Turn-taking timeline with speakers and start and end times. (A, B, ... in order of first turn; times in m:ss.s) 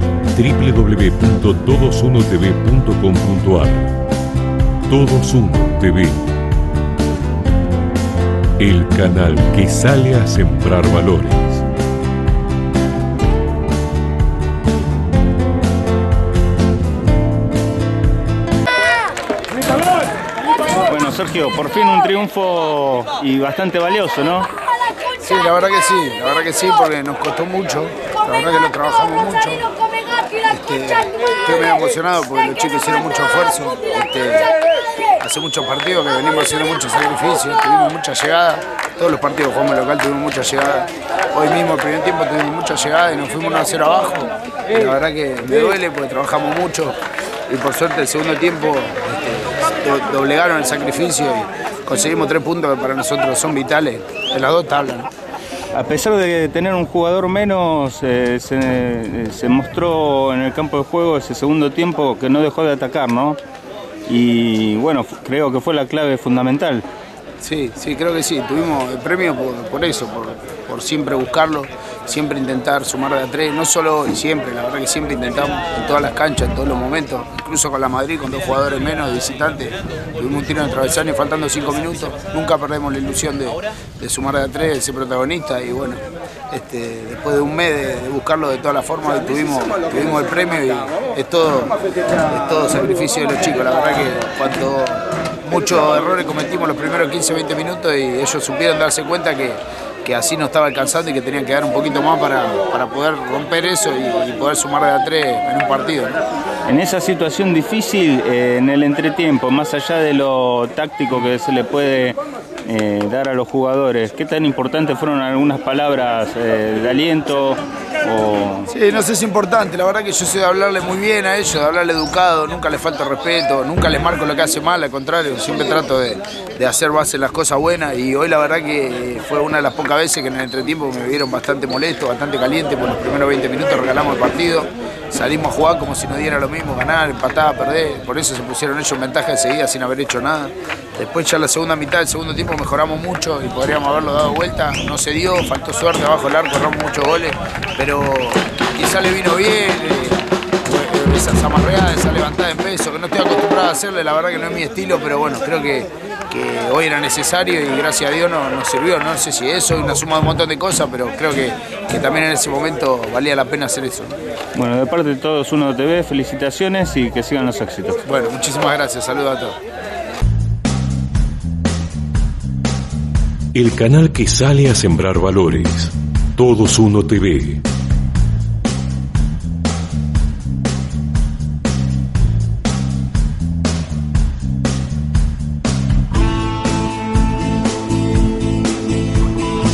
0:00.3-0:04.0 A
0:04.9-0:06.3 A
0:08.6-0:11.6 A
0:20.8-0:24.5 B
0:25.2-0:29.6 C
0:30.5-0:34.5 C
0:35.2-0:47.0 C
0:47.5-0:55.1 C
0:55.7-1:03.4 B
1:04.1-1:06.8 B
1:07.4-1:31.8 C
1:32.3-1:46.2 C
1:46.7-1:58.7 B
1:58.7-2:44.1 C
2:44.5-2:48.0 B
2:48.1-2:49.6 C
2:53.5-2:57.6 A